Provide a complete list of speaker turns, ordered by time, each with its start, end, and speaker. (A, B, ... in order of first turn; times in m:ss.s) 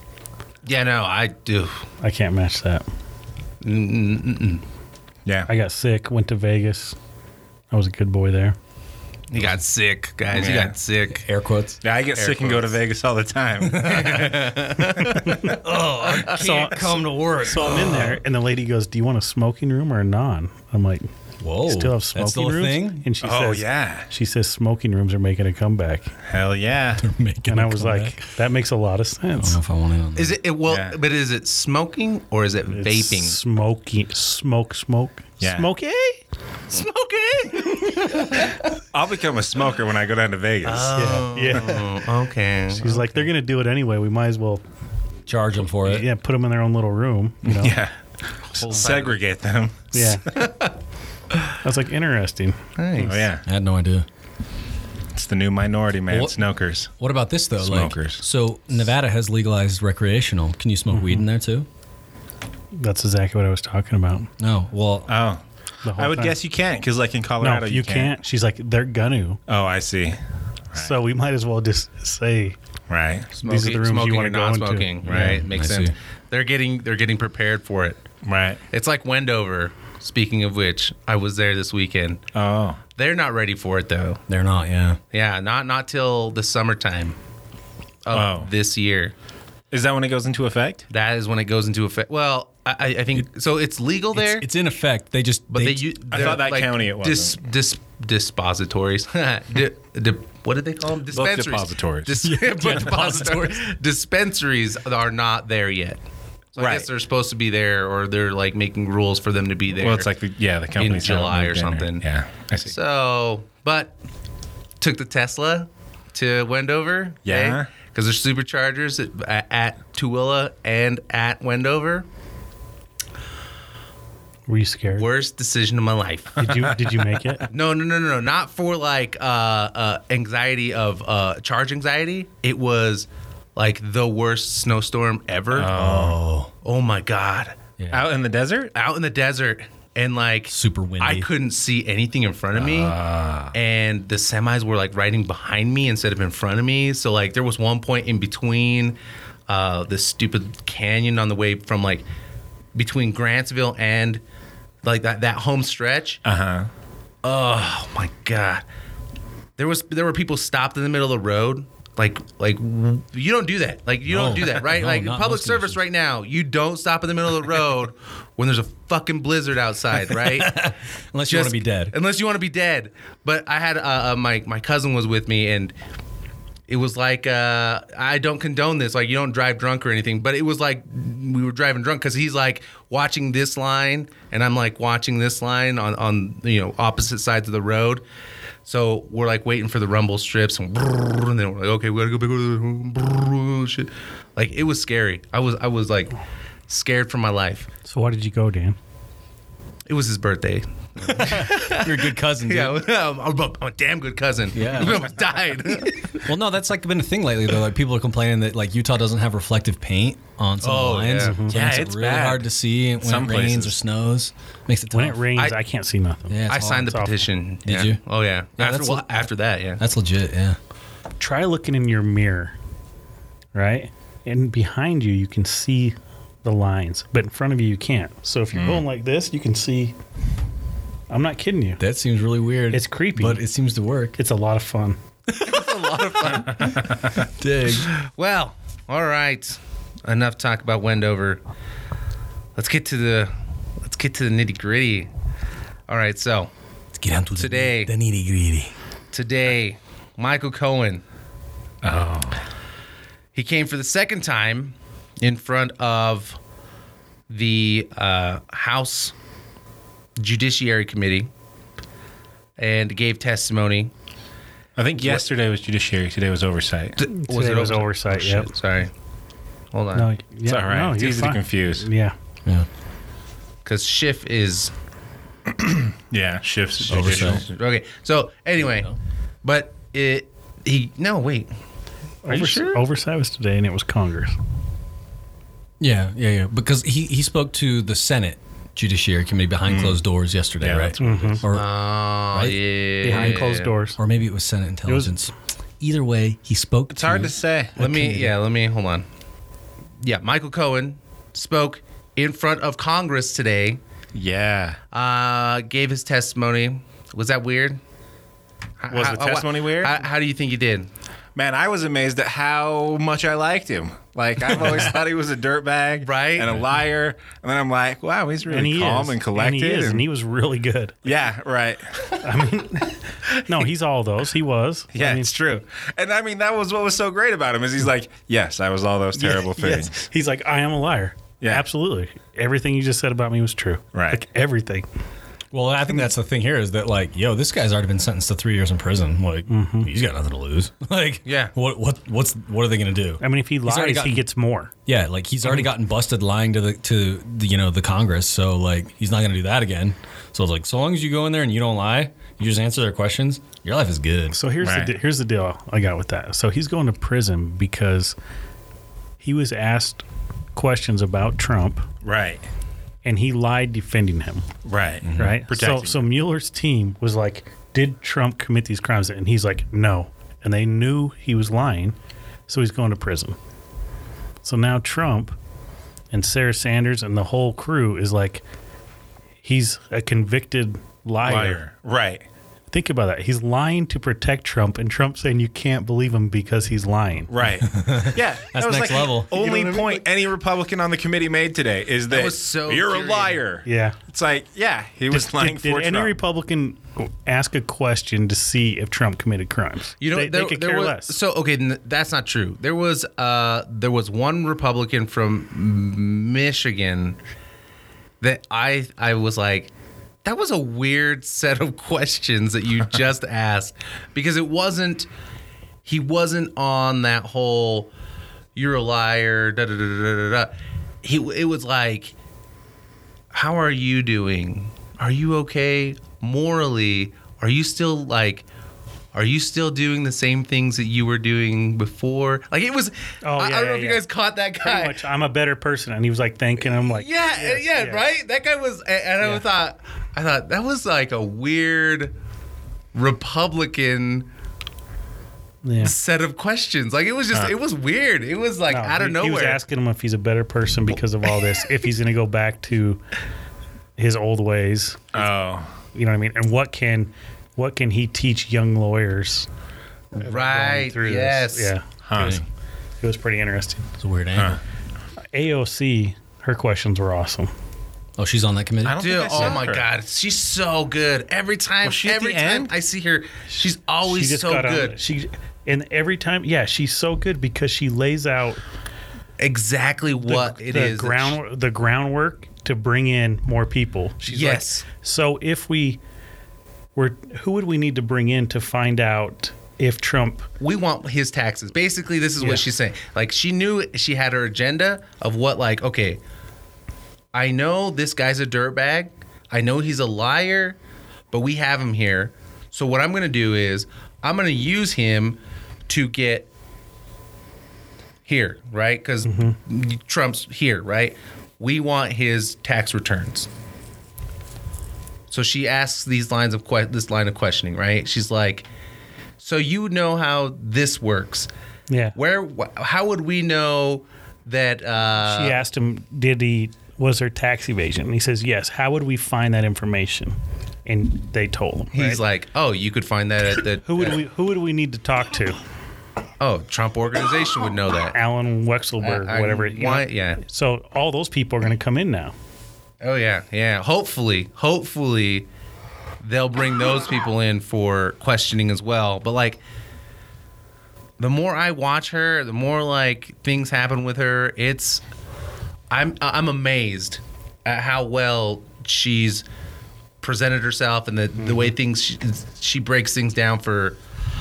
0:00.6-0:01.9 A
0:02.0-0:02.8 B
0:03.6-0:04.6 A
0:05.5-0:07.0 B
0:07.7-0:08.6 B
0:09.3-0:11.2 A
0:10.3-0:10.7 C
0:11.1-0:11.8 D
0:11.8-0:14.1 C
0:12.1-0:12.8 A
0:13.6-0:14.6 D
0:13.8-0:16.7 A
0:15.3-0:18.2 D
0:16.4-0:21.1 B
0:21.4-0:23.1 D
0:21.6-0:26.1 B
0:23.2-0:24.1 C
0:26.3-0:27.1 C
0:27.0-0:28.2 D
0:27.5-0:29.6 B
0:29.4-0:30.4 D
0:30.2-0:33.4 A
0:30.7-0:31.0 C
0:32.7-0:36.2 B
0:35.4-0:35.7 C
0:36.7-0:38.4 A
0:38.7-0:41.0 C
0:40.6-0:43.0 A
0:40.9-0:41.9 B
0:42.7-0:44.6 B
0:45.3-0:46.1 D
0:45.7-0:47.8 B
0:47.5-0:47.9 C
0:48.5-0:50.4 C
0:48.6-0:49.1 A
0:49.9-0:50.3 B
0:50.4-0:50.7 A
0:51.6-0:53.2 B
0:52.8-0:53.2 A
0:53.1-0:53.4 C
0:53.4-0:54.1 D
0:55.2-0:56.9 C
0:56.1-0:56.4 D
0:57.0-1:01.7 D
0:57.6-0:58.2 C
1:02.8-1:04.3 B
1:04.4-1:05.1 D
1:05.1-1:05.4 C
1:05.8-1:06.4 B
1:06.0-1:08.1 C
1:07.4-1:09.4 B
1:09.5-1:10.2 C
1:10.7-1:12.6 B
1:12.9-1:13.3 C
1:13.3-1:18.0 A
1:13.4-1:14.9 B
1:15.0-1:15.9 D
1:18.2-1:18.6 C
1:18.7-1:22.2 A
1:22.4-1:22.8 C
1:23.0-1:24.2 A
1:24.3-1:25.0 D
1:25.1-1:27.2 A
1:28.0-1:29.1 A
1:28.1-1:28.5 C
1:29.7-1:30.9 C
1:30.9-1:34.5 A
1:34.2-1:35.9 D
1:35.5-1:46.0 A
1:36.1-1:37.4 C
1:41.1-1:42.2 C
1:42.2-1:43.7 D
1:46.5-1:50.1 A
1:46.6-1:46.9 C
1:49.8-1:52.8 C
1:50.7-1:52.1 A
1:52.6-1:53.9 A
1:54.8-2:02.1 A
1:57.3-1:57.7 C
2:04.5-2:05.1 B
2:04.9-2:06.6 A
2:06.4-2:07.5 B
2:07.5-2:15.7 A
2:15.5-2:16.2 C
2:15.7-2:16.5 D
2:16.6-2:17.6 A
2:17.8-2:18.1 D
2:17.9-2:18.7 C
2:18.7-2:23.0 A
2:20.5-2:21.3 D
2:22.6-2:23.5 C
2:23.5-2:29.0 A
2:29.5-2:32.0 A
2:32.8-2:34.2 A
2:34.8-2:36.2 A
2:36.2-2:36.7 C
2:37.2-2:38.6 A
2:39.6-2:50.6 A
2:44.1-2:45.8 D
2:50.1-2:52.0 D
2:51.3-2:55.7 A
2:56.7-3:08.0 A
3:08.6-3:16.2 A
3:16.7-3:17.7 A
3:17.8-3:18.8 B
3:19.9-3:26.3 A
3:21.0-3:22.8 D
3:24.5-3:25.1 D
3:26.2-3:35.2 D
3:30.6-3:31.4 A
3:31.2-3:31.6 B
3:31.5-3:32.5 C
3:33.0-3:33.8 C
3:34.9-3:37.2 B
3:36.3-3:37.1 D
3:36.5-3:39.8 A
3:37.6-3:38.0 D
3:38.6-3:39.1 D
3:39.8-3:40.6 D
3:41.2-3:42.6 B
3:43.5-3:50.0 B
3:48.5-3:48.8 C
3:51.1-3:51.8 B
3:51.8-3:54.2 D
3:52.7-3:53.4 B
3:54.2-3:55.0 B
3:55.3-3:57.9 D
3:55.4-3:56.9 A
3:56.6-3:57.1 C
3:57.7-4:01.4 A
4:02.6-4:05.1 A
4:05.9-4:06.5 A
4:07.0-4:08.7 D
4:07.4-4:07.9 A
4:09.1-4:11.0 A
4:11.8-4:12.4 C
4:13.3-4:16.4 A
4:17.3-4:19.1 A
4:20.2-4:21.3 A
4:22.6-4:23.9 A
4:24.8-4:27.0 C
4:27.0-4:28.9 A
4:27.0-4:28.5 B
4:29.7-4:30.1 A
4:29.9-4:32.2 B
4:30.5-4:31.9 C
4:33.6-4:34.7 A
4:35.5-4:37.4 C
4:36.8-4:41.5 A
4:36.9-4:37.4 D
4:42.2-4:44.3 B
4:42.3-4:42.8 A
4:45.8-4:51.7 D
4:49.7-4:50.0 C
4:50.6-4:51.0 C
4:51.0-4:51.4 B
4:51.5-4:53.7 A
4:52.3-4:58.3 D
4:53.0-4:54.0 B
4:54.9-4:55.1 B
4:56.9-4:57.7 C
4:57.8-4:59.1 A
5:00.0-5:03.8 A
5:04.1-5:04.8 C
5:04.9-5:07.8 A
5:08.8-5:10.9 A
5:08.9-5:10.0 C
5:11.4-5:20.0 C
5:16.0-5:16.6 A
5:18.5-5:21.1 B
5:21.0-5:22.0 C
5:22.2-5:25.3 B
5:24.9-5:29.9 C
5:29.2-5:34.9 B
5:33.9-5:34.2 C
5:35.5-5:44.2 D
5:39.5-5:39.9 B
5:41.2-5:41.5 A
5:43.2-5:44.7 B
5:44.9-5:54.4 D
5:54.3-5:58.2 B
5:54.6-5:54.9 C
5:59.2-6:00.0 B
6:00.6-6:01.9 B
6:02.0-6:02.4 C
6:03.0-6:04.5 B
6:04.6-6:06.0 C
6:05.0-6:05.4 D
6:05.1-6:12.0 B
6:12.5-6:13.4 B
6:14.4-6:15.4 B
6:16.1-6:18.4 B
6:19.4-6:21.6 B
6:21.2-6:22.2 C
6:22.7-6:27.3 B
6:27.3-6:36.1 C
6:27.7-6:29.3 D
6:29.3-6:30.0 B
6:32.1-6:33.4 A
6:33.6-6:34.0 B
6:35.1-6:41.2 B
6:40.0-6:47.2 A
6:48.2-6:49.7 A
6:50.2-6:55.1 A
6:55.8-6:57.9 A
6:58.6-7:00.5 A
7:01.0-7:02.1 A
7:03.3-7:08.4 A
7:09.1-7:15.0 A
7:13.2-7:14.0 B
7:14.6-7:18.0 B
7:16.8-7:22.1 A
7:22.9-7:24.3 A
7:25.6-7:25.9 B
7:25.8-7:29.6 A
7:28.7-7:33.0 B
7:34.0-7:35.4 B
7:35.2-7:35.7 C
7:35.9-7:39.5 B
7:40.2-7:42.3 B
7:40.2-7:41.7 A
7:42.0-7:42.4 C
7:42.1-7:42.5 D
7:43.0-7:43.8 B
7:44.0-7:44.6 D
7:44.4-7:44.6 C
7:45.3-7:47.5 B
7:48.2-7:49.0 D
7:48.8-7:49.8 C
7:49.0-7:55.0 A
7:51.8-7:52.7 C
7:54.0-7:58.6 B
7:59.4-8:01.4 A
8:00.2-8:06.0 B
8:04.3-8:04.9 A
8:07.0-8:10.5 B
8:10.6-8:16.2 A
8:17.3-8:20.8 A
8:21.3-8:26.5 A
8:28.3-8:33.5 A
8:29.3-8:29.6 B
8:35.3-8:38.7 A
8:39.4-8:41.5 A
8:41.9-8:42.2 B
8:42.2-8:45.6 A
8:45.2-8:50.4 B
8:50.9-8:52.2 B
8:51.9-8:54.2 A
8:53.8-8:55.6 B
8:56.4-8:58.2 A
8:58.1-9:02.3 B
8:59.0-9:00.4 A
9:03.0-9:05.5 A
9:06.2-9:09.6 A
9:11.2-9:15.0 A
9:15.9-9:19.4 A
9:20.2-9:24.0 A